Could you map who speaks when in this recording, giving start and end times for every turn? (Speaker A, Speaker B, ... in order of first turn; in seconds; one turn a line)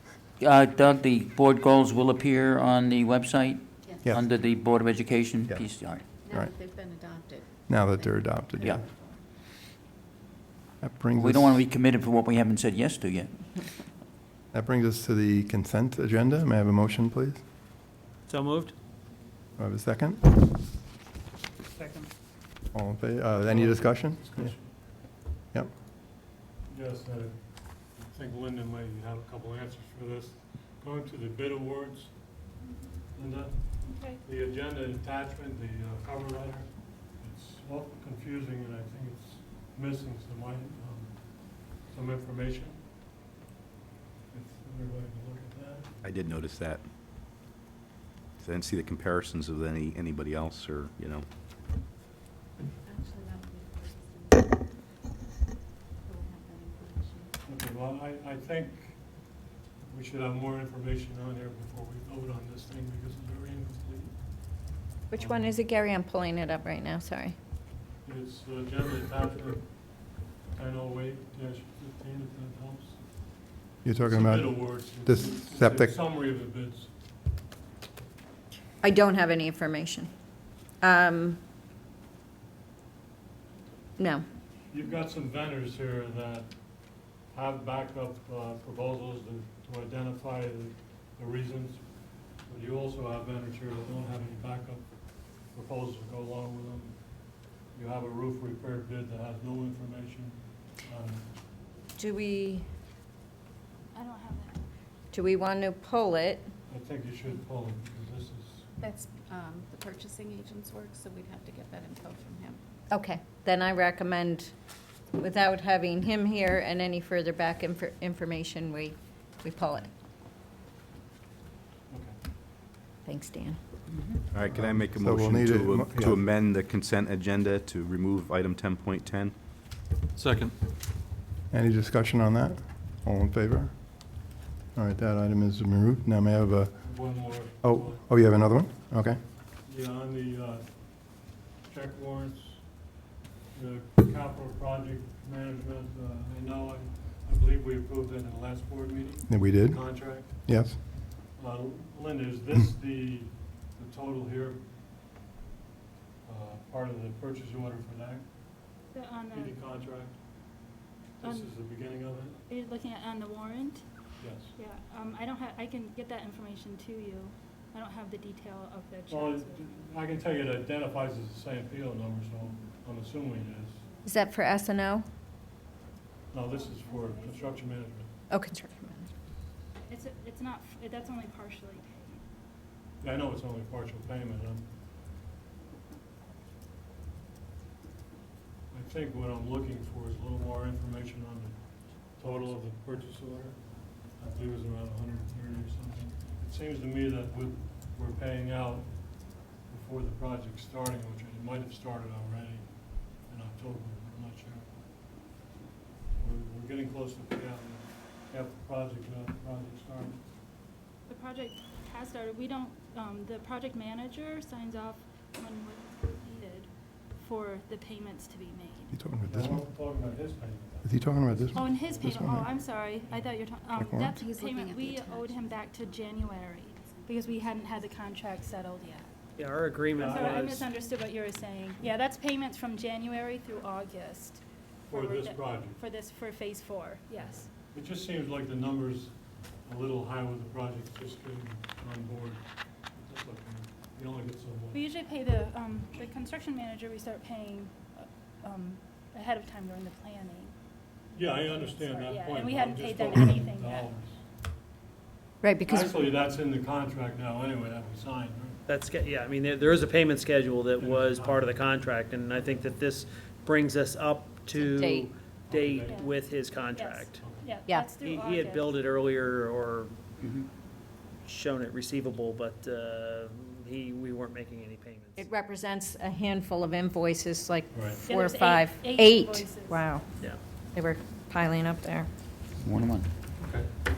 Speaker A: 0.4-6.1
Speaker B: 3.8-4.1
Speaker C: 5.4-5.7
Speaker B: 6.2-7.5
Speaker C: 7.7-8.8
Speaker A: 8.6-8.8
Speaker B: 8.9-9.2
Speaker C: 10.8-11.6
Speaker A: 11.1-13.4
Speaker C: 14.5-17.4
Speaker D: 18.3-18.7
Speaker C: 19.6-20.2
Speaker D: 21.8-22.1
Speaker C: 22.7-25.7
Speaker E: 23.4-24.9
Speaker E: 26.6-32.4
Speaker E: 33.1-42.8
Speaker F: 33.8-34.2
Speaker E: 44.3-46.0
Speaker G: 46.0-46.8
Speaker G: 48.4-51.3
Speaker B: 52.8-54.5
Speaker B: 56.0-57.3
Speaker E: 57.4-59.3
Speaker E: 59.8-65.5
Speaker H: 65.1-67.3
Speaker E: 68.0-73.3
Speaker C: 73.8-76.0
Speaker E: 74.0-76.9
Speaker H: 78.8-80.1
Speaker H: 80.8-81.4
Speaker H: 84.0-84.2
Speaker E: 84.7-86.5
Speaker E: 87.3-97.0
Speaker E: 97.7-101.3
Speaker H: 102.0-102.6
Speaker F: 103.9-104.7
Speaker H: 105.1-106.5
Speaker E: 106.7-108.9
Speaker B: 108.8-112.6
Speaker H: 112.9-114.5
Speaker H: 115.1-119.9
Speaker E: 121.9-122.2
Speaker H: 123.0-123.6
Speaker G: 124.3-129.3
Speaker C: 124.4-126.2
Speaker C: 131.5-134.2
Speaker C: 134.7-139.2
Speaker E: 136.8-138.0
Speaker E: 139.6-142.8
Speaker E: 143.5-150.6
Speaker C: 149.3-150.8
Speaker E: 151.3-154.6
Speaker E: 156.2-158.3
Speaker F: 158.9-159.6
Speaker E: 159.3-160.2
Speaker E: 161.2-162.4
Speaker F: 161.2-161.6
Speaker F: 162.5-163.8
Speaker E: 164.2-164.5
Speaker F: 164.5-169.6
Speaker E: 169.1-173.8
Speaker H: 174.0-175.0
Speaker E: 176.3-178.1
Speaker F: 176.5-177.6
Speaker H: 178.3-179.1
Speaker F: 179.9-182.2
Speaker E: 183.0-184.7
Speaker E: 188.7-204.7
Speaker E: 206.2-210.2
Speaker F: 211.1-218.9
Speaker C: 218.9-219.8
Speaker E: 219.2-223.4
Speaker C: 220.8-222.5
Speaker F: 221.5-229.0
Speaker C: 223.7-224.2
Speaker B: 224.1-225.4
Speaker B: 228.8-229.1
Speaker D: 229.3-230.7
Speaker E: 229.9-230.6
Speaker F: 230.1-237.5
Speaker E: 234.9-235.8
Speaker E: 237.2-244.8
Speaker F: 244.7-250.5
Speaker E: 251.1-254.2
Speaker F: 251.2-253.9
Speaker H: 255.4-255.9
Speaker E: 255.6-258.6
Speaker D: 258.7-267.2
Speaker E: 260.8-262.6
Speaker H: 264.5-265.1
Speaker E: 265.5-266.1
Speaker F: 265.9-268.9
Speaker E: 267.1-267.6
Speaker D: 268.0-270.4
Speaker D: 271.2-275.2
Speaker H: 275.1-282.1
Speaker E: 277.7-278.0
Speaker F: 278.0-280.0
Speaker A: 282.6-283.1